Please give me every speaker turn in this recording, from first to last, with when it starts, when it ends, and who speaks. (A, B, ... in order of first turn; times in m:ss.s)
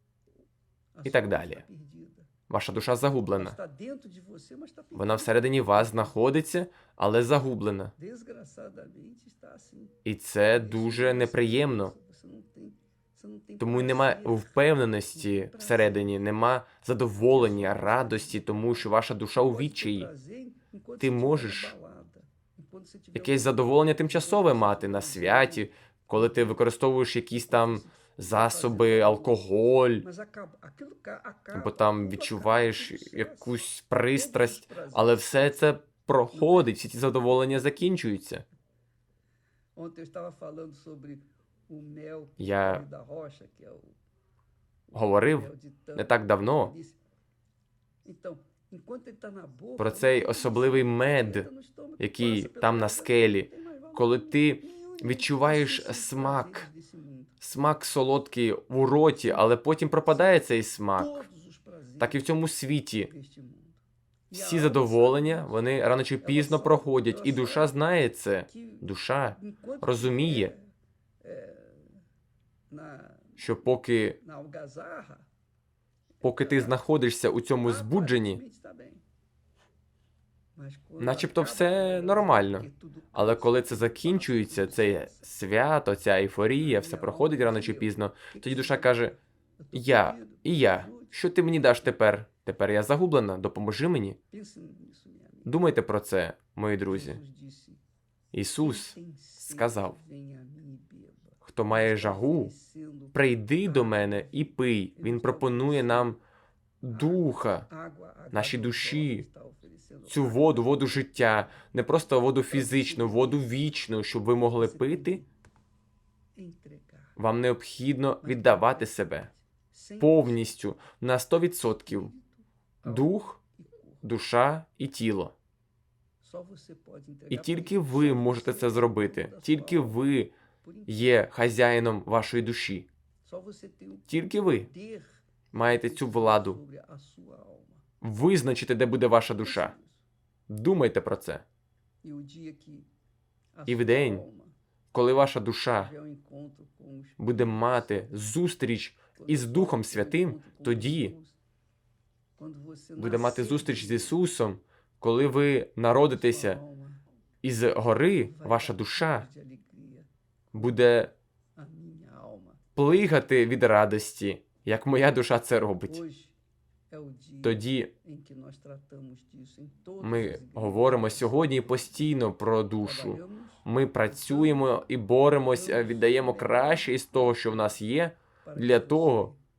0:01.0-0:02.3 A
0:01.0-0:01.6 B
0:02.5-0:03.6 B
0:03.2-0:06.2 A
0:04.9-0:07.9 B
0:08.0-0:16.1 A
0:10.0-0:11.9 B
0:13.6-0:20.1 B
0:17.2-0:26.6 A
0:21.0-0:21.7 B
0:23.1-0:30.0 B
0:27.4-0:29.4 A
0:30.0-0:33.6 A
0:31.5-0:38.4 B
0:34.1-0:35.8 A
0:36.3-0:36.8 A
0:39.8-0:43.9 A
0:42.4-0:42.8 B
0:44.9-0:47.0 A
0:44.9-0:46.7 B
0:48.0-0:57.4 A
0:49.8-0:51.5 B
0:52.0-0:56.7 B
0:57.4-1:01.3 B
0:59.2-0:59.5 A
1:00.0-1:02.3 A
1:02.0-1:03.1 B
1:03.0-1:07.9 A
1:04.3-1:10.5 B
1:08.5-1:10.7 A
1:11.2-1:12.0 A
1:12.7-1:13.6 A
1:13.4-1:14.2 B
1:14.2-1:15.3 A
1:16.2-1:16.8 A
1:16.2-1:18.4 B
1:17.6-1:19.0 A
1:20.6-1:25.3 A
1:21.0-1:29.2 B
1:26.6-1:29.1 A
1:29.6-1:31.2 A
1:29.7-1:34.2 B
1:34.3-1:35.5 A
1:35.4-1:37.2 B
1:36.9-1:37.8 A
1:38.3-1:40.0 B
1:38.6-1:46.2 A
1:41.4-1:42.5 B
1:43.1-1:46.2 B
1:46.8-1:47.7 B
1:46.9-1:50.9 A
1:48.3-1:49.2 B
1:50.1-1:55.2 B
1:52.5-1:53.7 A
1:54.6-1:55.3 A
1:56.3-1:57.2 A
1:57.2-1:59.3 B
1:58.2-2:00.6 A
2:00.0-2:02.1 B
2:01.9-2:04.0 A
2:02.8-2:03.4 B
2:04.0-2:05.3 B
2:06.2-2:10.1 A
2:07.3-2:10.3 B
2:10.6-2:11.2 A
2:10.9-2:12.9 B
2:13.2-2:17.8 A
2:14.1-2:14.7 B
2:15.5-2:16.6 B
2:18.0-2:19.7 B
2:19.4-2:20.0 A
2:20.5-2:21.4 B
2:22.0-2:22.9 A
2:23.6-2:24.5 A
2:23.7-2:24.2 B
2:24.9-2:25.9 B
2:25.8-2:28.2 A
2:27.2-2:31.1 B
2:29.1-2:31.4 A
2:32.4-2:34.2 A
2:33.0-2:36.6 B
2:35.9-2:37.0 A
2:37.4-2:39.3 B
2:38.2-2:41.0 A
2:40.5-2:41.1 B
2:41.6-2:42.6 A
2:42.8-2:46.0 B
2:45.8-2:46.3 A
2:46.9-2:51.9 A
2:47.4-2:47.9 B
2:50.0-2:59.3 B
2:52.8-2:54.8 A
2:55.5-2:57.7 A
2:58.4-2:59.4 A